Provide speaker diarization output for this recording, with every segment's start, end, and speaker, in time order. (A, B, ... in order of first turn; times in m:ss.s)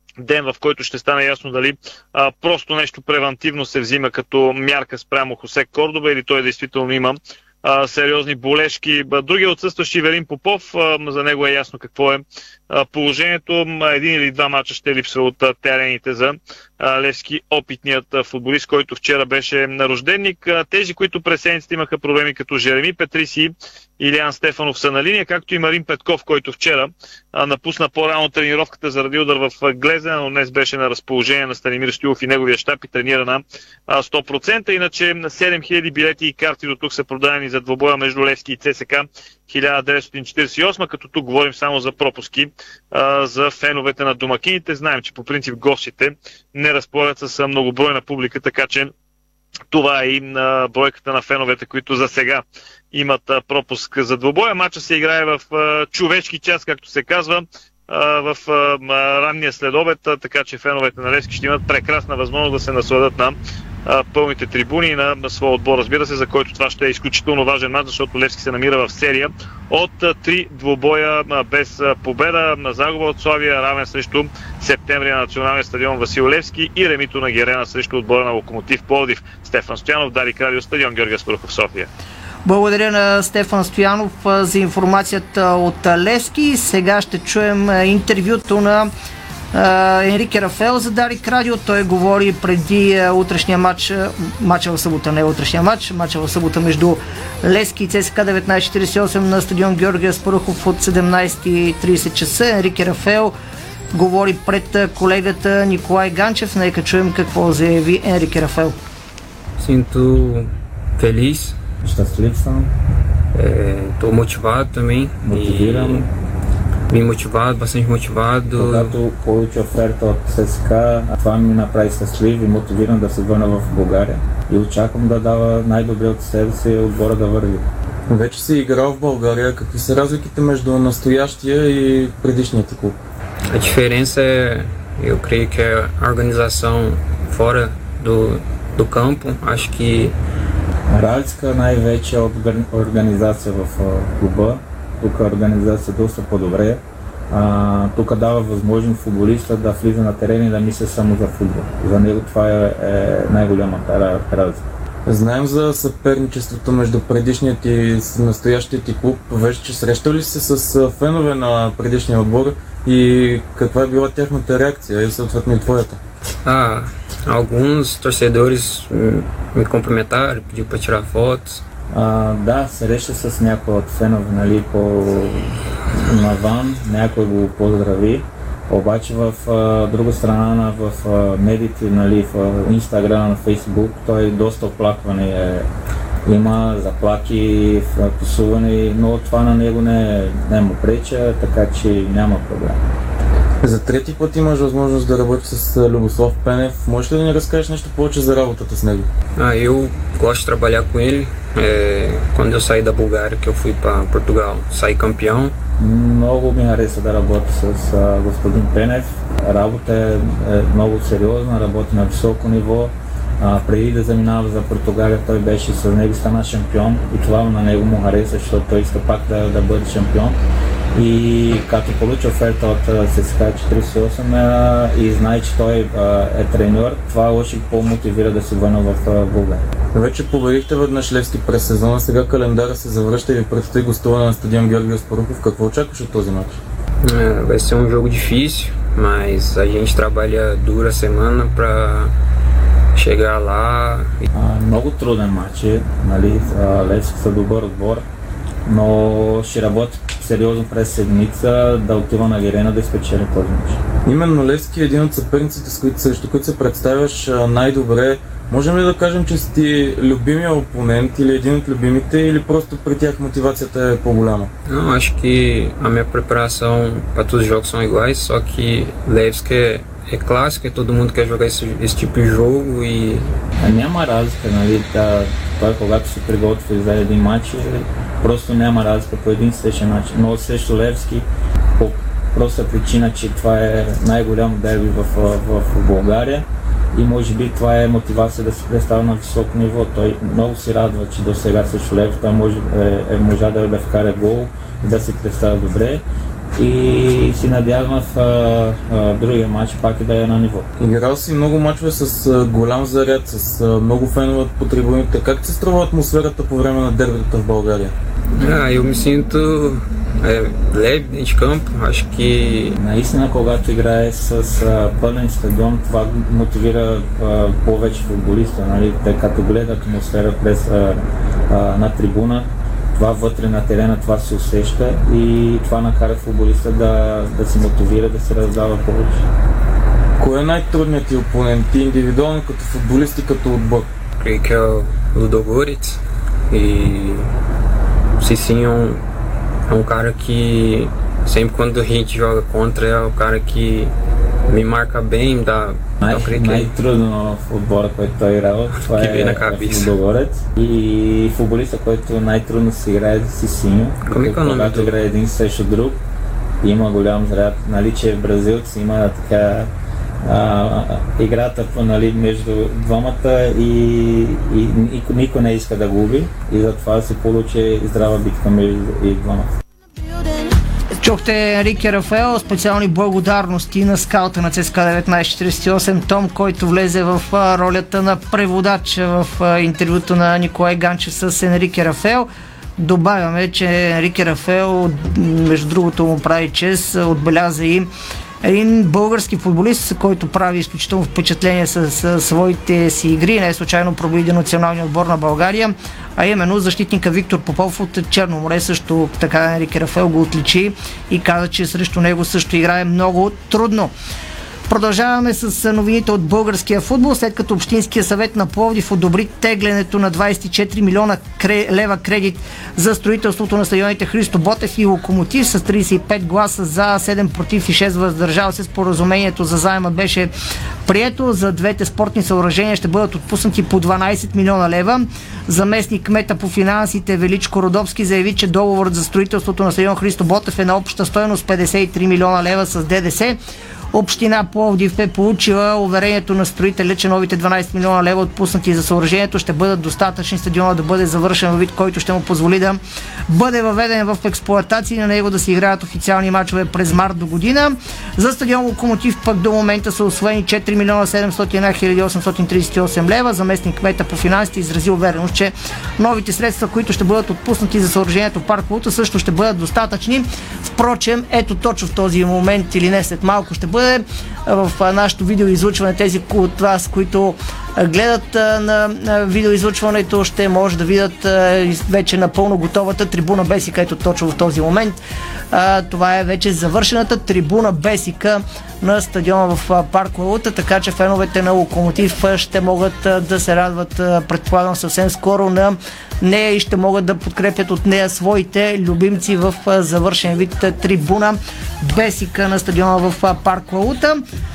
0:00.2-0:48.9 A
0:49.7-1:21.9 A
1:22.4-1:28.9 B
1:29.5-1:43.3 B
1:43.9-1:48.8 B
1:49.6-1:51.6 C
1:51.8-1:52.7 D
1:53.3-1:56.1 C
1:55.2-1:56.0 D
1:56.9-1:58.9 C
1:58.6-2:07.6 D
2:08.1-2:13.0 E
2:13.5-2:20.1 C
2:20.9-2:34.6 D
2:35.0-2:46.0 E
2:46.4-2:51.6 C
2:51.9-3:05.6 D
3:06.3-3:12.8 D
3:13.6-3:19.1 E
3:19.4-3:25.5 C
3:25.8-3:40.4 D
3:40.9-3:49.6 D
3:49.9-3:56.6 E
3:57.0-4:02.1 C
4:03.0-4:04.3 C
4:04.3-4:08.0 D
4:08.6-4:13.8 D
4:14.0-4:24.5 E
4:24.7-4:33.3 C
4:33.6-4:41.2 D
4:41.8-4:56.0 D
4:56.6-5:00.7 D
5:00.8-5:07.9 E
5:08.3-5:12.8 C
5:12.8-5:29.2 D
5:30.2-5:33.9 E
5:34.2-5:37.3 C
5:38.2-5:39.0 C
5:39.7-5:43.9 C
5:44.5-5:46.7 C
5:46.0-5:56.0 D
5:48.7-5:50.0 C
5:54.0-5:55.0 C
5:56.6-5:59.7 D
6:00.2-6:09.5 D
6:11.0-6:27.9 B
6:28.4-6:43.9 B
6:44.7-7:00.3 B
7:00.9-7:13.4 B
7:13.9-7:55.0 B
7:55.5-8:14.2 B